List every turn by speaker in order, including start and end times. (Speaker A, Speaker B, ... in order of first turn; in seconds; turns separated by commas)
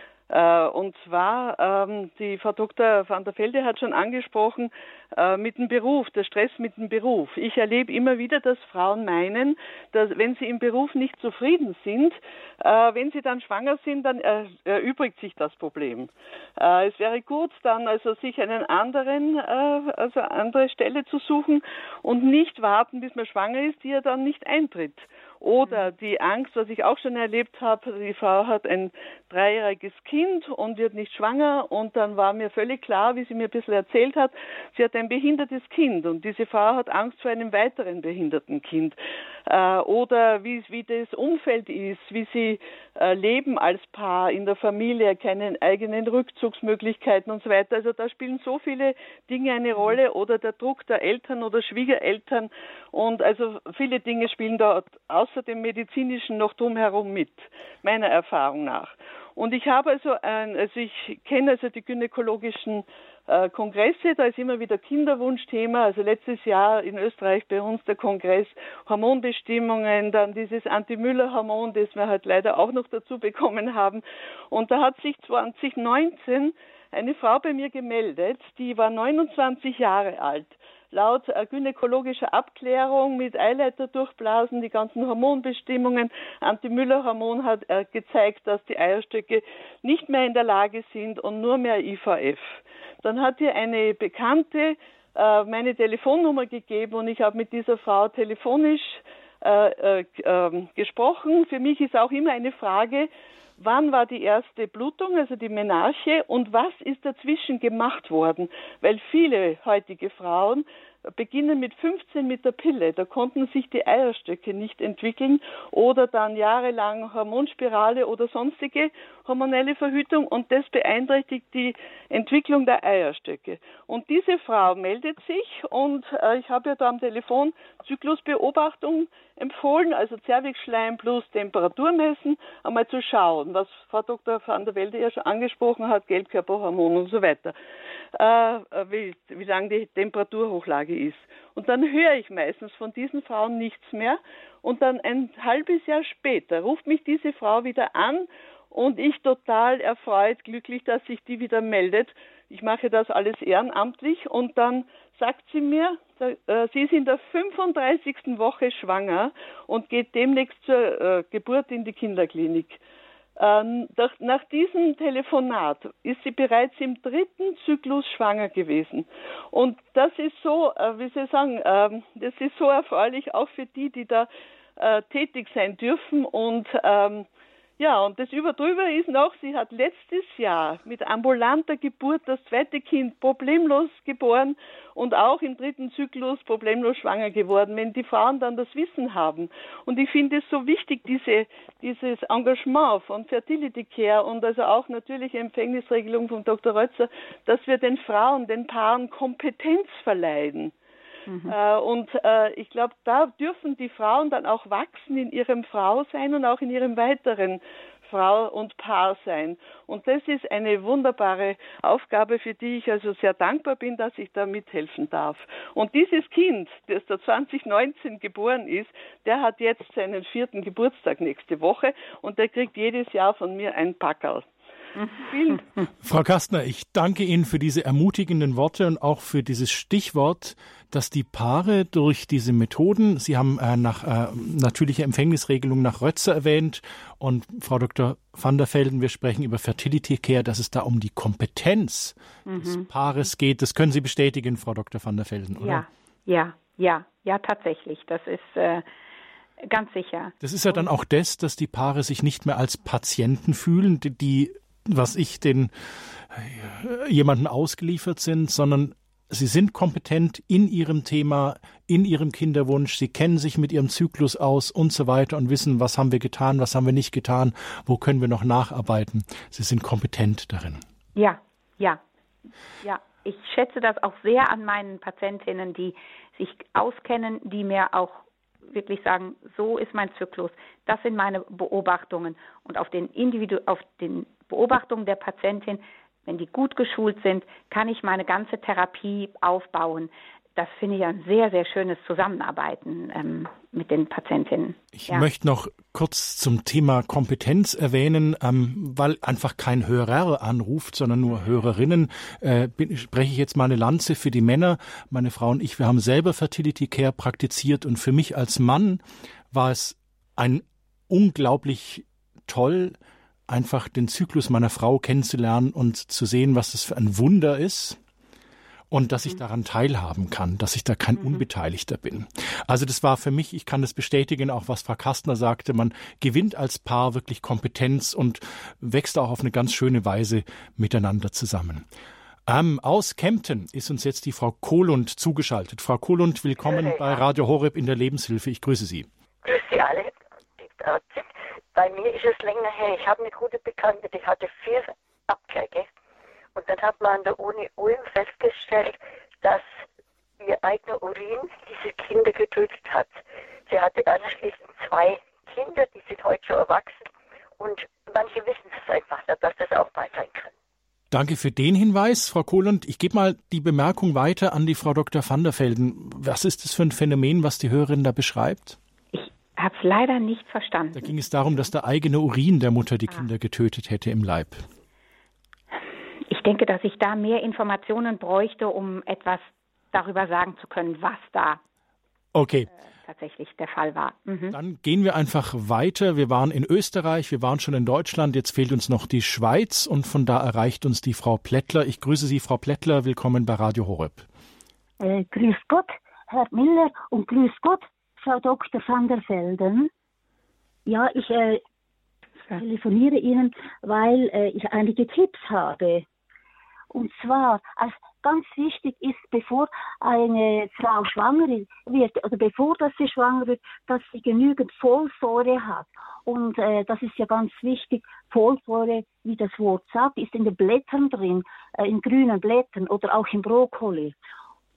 Speaker A: 0.3-103.1, Speaker B: 25.6-25.9, Speaker A: 103.6-137.6, Speaker A: 138.2-162.8, Speaker A: 163.4-177.3, Speaker A: 177.8-200.7, Speaker B: 201.3-201.6, Speaker A: 201.5-224.5, Speaker A: 225.2-225.7, Speaker C: 226.0-245.8, Speaker B: 242.5-242.9, Speaker B: 245.6-248.8, Speaker B: 249.6-250.8, Speaker C: 250.4-270.8, Speaker B: 271.1-272.0, Speaker B: 272.8-295.3, Speaker C: 294.9-313.0, Speaker C: 313.5-318.0, Speaker C: 318.9-331.9, Speaker B: 321.2-321.4, Speaker C: 332.5-339.1, Speaker D: 336.7-337.1, Speaker D: 339.4-345.9, Speaker D: 346.6-349.7, Speaker D: 350.4-357.1, Speaker D: 357.6-360.5, Speaker C: 361.1-368.8, Speaker B: 369.1-371.1, Speaker C: 370.9-374.7, Speaker B: 376.3-381.6, Speaker C: 382.3-382.7, Speaker B: 382.7-384.6, Speaker C: 384.5-394.3, Speaker E: 395.0-399.9, Speaker E: 400.9-401.6, Speaker E: 402.5-406.1, Speaker E: 406.9-424.1